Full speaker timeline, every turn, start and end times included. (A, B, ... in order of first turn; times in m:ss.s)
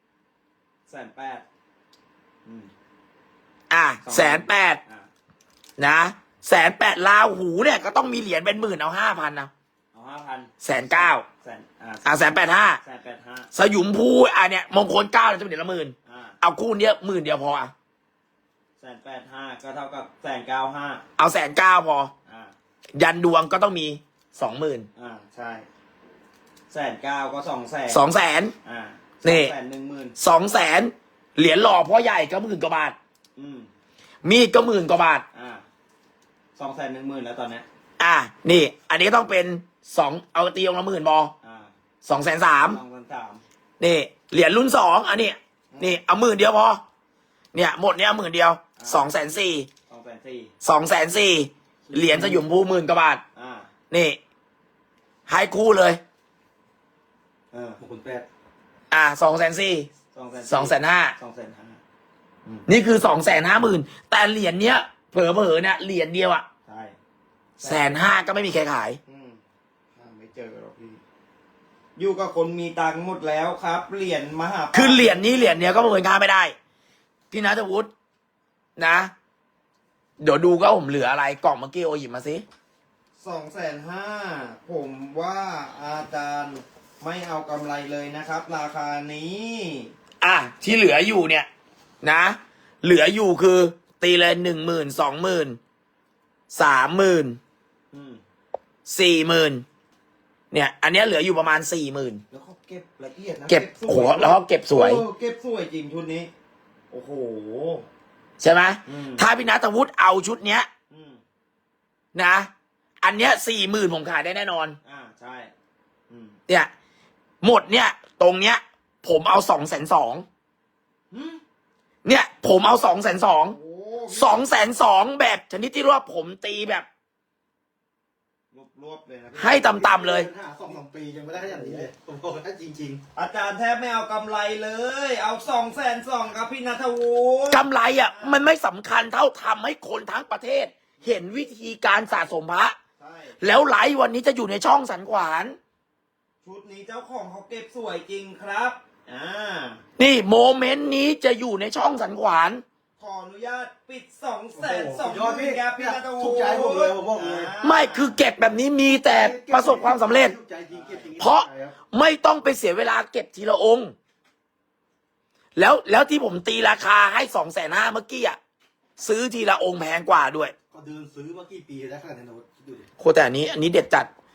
0:00.9-0:01.4 A
0:02.4-0:02.7 A
0:03.7-0:04.8 B
0:04.0-0:05.1 A
0:05.8-0:09.5 B
0:09.9-0:12.2 A
0:10.6-0:11.2 B
0:12.0-0:12.8 B
0:12.8-0:13.5 A
0:13.5-0:17.7 B
0:16.1-0:16.4 A
0:18.8-0:21.0 A
0:21.2-0:22.1 B
0:22.3-0:22.5 A
0:23.0-0:24.9 B
0:25.0-0:25.6 A
0:26.7-0:28.0 A
0:27.9-0:28.5 B
0:28.6-0:30.1 A
0:29.2-0:29.5 B
0:30.2-0:33.0 B
0:33.4-0:33.7 A
0:34.2-0:35.2 B
0:35.3-0:35.6 A
0:36.6-0:37.6 A
0:38.0-0:41.3 B
0:41.4-0:41.7 A
0:42.0-0:42.8 B
0:42.7-0:43.4 A
0:43.8-0:46.8 B
0:45.7-0:46.0 A
0:47.5-0:49.7 B
0:48.8-0:49.1 A
0:49.9-0:50.5 A
0:50.6-0:53.2 B
0:51.9-0:52.4 C
0:53.4-0:53.7 A
0:53.9-0:54.2 B
0:55.3-0:56.0 B
0:57.5-0:57.8 A
0:57.8-0:58.2 C
0:58.9-0:59.9 B
1:00.1-1:01.8 A
1:00.4-1:01.1 B
1:02.7-1:06.4 B
1:06.7-1:06.9 A
1:07.6-1:07.9 A
1:07.6-1:09.0 B
1:09.1-1:09.4 A
1:10.0-1:11.0 A
1:12.0-1:15.6 A
1:14.7-1:16.5 B
1:17.3-1:17.9 B
1:18.8-1:19.1 B
1:20.2-1:22.4 B
1:23.2-1:29.9 A
1:30.2-1:31.5 B
1:32.0-1:35.6 B
1:36.5-1:37.4 B
1:37.9-1:38.2 A
1:38.8-1:39.6 B
1:40.5-1:42.2 B
1:42.3-1:46.3 A
1:43.5-1:45.0 B
1:46.9-1:47.8 A
1:48.4-1:50.7 B
1:48.8-1:49.2 A
1:50.9-1:51.2 A
1:52.1-1:52.5 B
1:53.0-1:54.8 B
1:54.8-1:55.5 A
1:56.1-1:56.4 A
1:57.4-2:00.2 B
2:01.1-2:01.4 A
2:02.0-2:03.6 B
2:03.5-2:04.4 A
2:04.1-2:06.8 B
2:08.5-2:09.7 A
2:09.4-2:10.3 B
2:09.6-2:13.0 C
2:11.5-2:11.9 A
2:13.1-2:18.4 A
2:17.5-2:22.8 B
2:23.0-2:23.4 A
2:23.4-2:25.6 B
2:26.4-2:29.8 A
2:30.0-2:32.6 B
2:33.0-2:38.2 A
2:34.6-2:37.6 C
2:37.6-2:40.3 B
2:38.8-2:41.8 C
2:40.7-2:41.1 A
2:41.2-2:43.9 B
2:45.6-2:48.4 B
2:49.0-2:50.5 B
2:50.7-2:52.9 C
2:53.0-2:54.1 B